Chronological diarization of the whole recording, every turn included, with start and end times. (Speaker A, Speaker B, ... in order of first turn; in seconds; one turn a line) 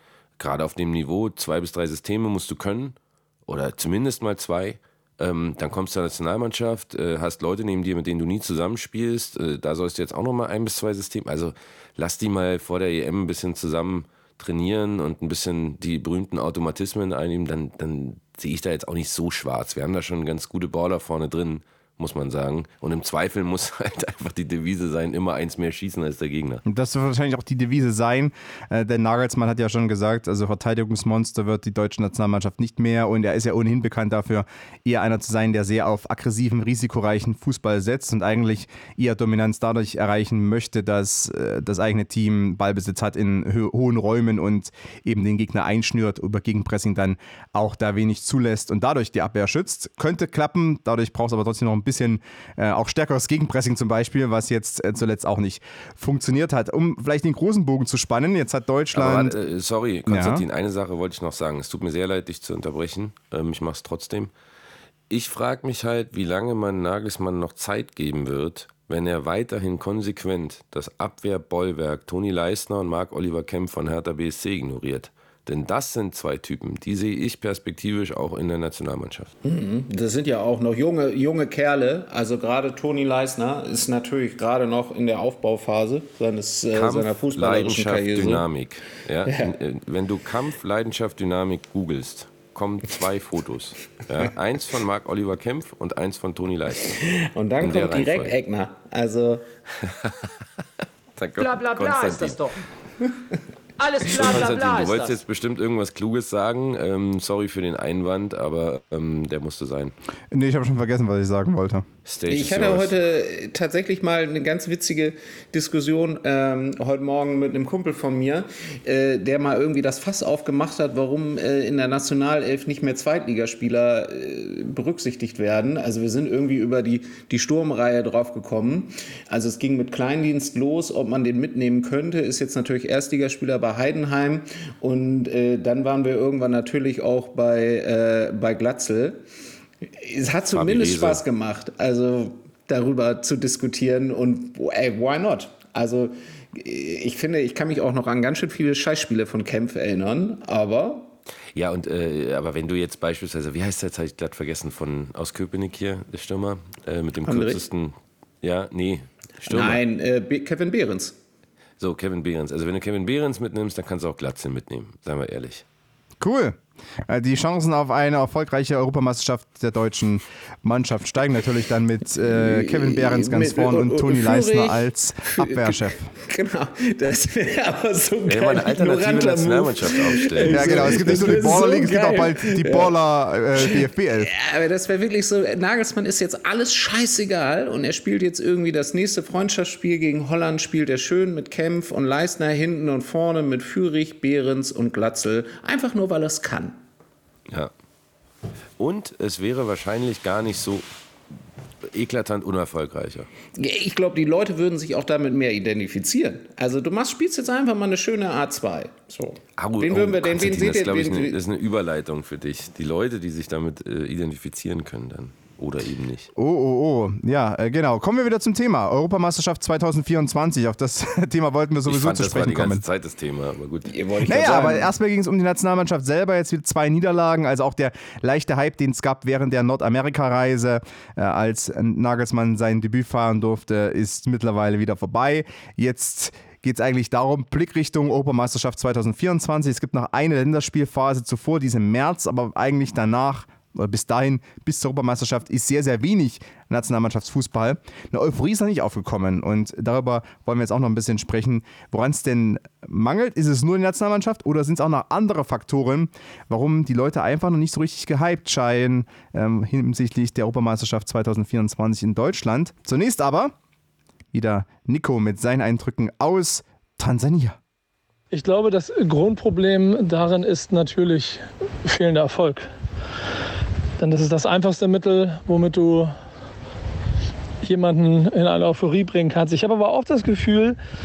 Speaker A: 0.4-26.6
Speaker B: 26.6-59.4
Speaker A: 58.9-64.3
Speaker B: 60.1-60.4
Speaker A: 65.1-79.3
Speaker C: 79.4-88.5
Speaker A: 86.7-97.0
Speaker C: 89.2-89.5
Speaker C: 96.9-99.4
Speaker A: 97.6-98.3
Speaker A: 99.8-100.3
Speaker A: 101.2-102.5
Speaker D: 101.4-102.6
Speaker D: 103.8-105.2
Speaker A: 104.0-109.9
Speaker B: 110.3-111.8
Speaker A: 112.0-112.9
Speaker C: 112.3-139.2
Speaker C: 140.0-151.1
Speaker A: 140.5-141.2
Speaker A: 151.5-159.8
Speaker C: 157.2-157.6
Speaker C: 159.4-161.1
Speaker A: 161.8-165.6
Speaker B: 166.2-166.6
Speaker B: 167.1-176.1
Speaker C: 172.2-182.9
Speaker A: 178.3-181.3
Speaker B: 180.5-184.3
Speaker C: 183.6-196.8
Speaker A: 198.8-200.9
Speaker A: 201.8-203.3
Speaker C: 203.6-211.4
Speaker A: 209.6-216.3
Speaker B: 216.4-222.8
Speaker A: 221.9-223.9
Speaker C: 223.9-224.9
Speaker B: 224.2-263.5
Speaker B: 264.3-267.6
Speaker E: 268.3-272.7
Speaker E: 274.0-276.1
Speaker E: 277.6-280.8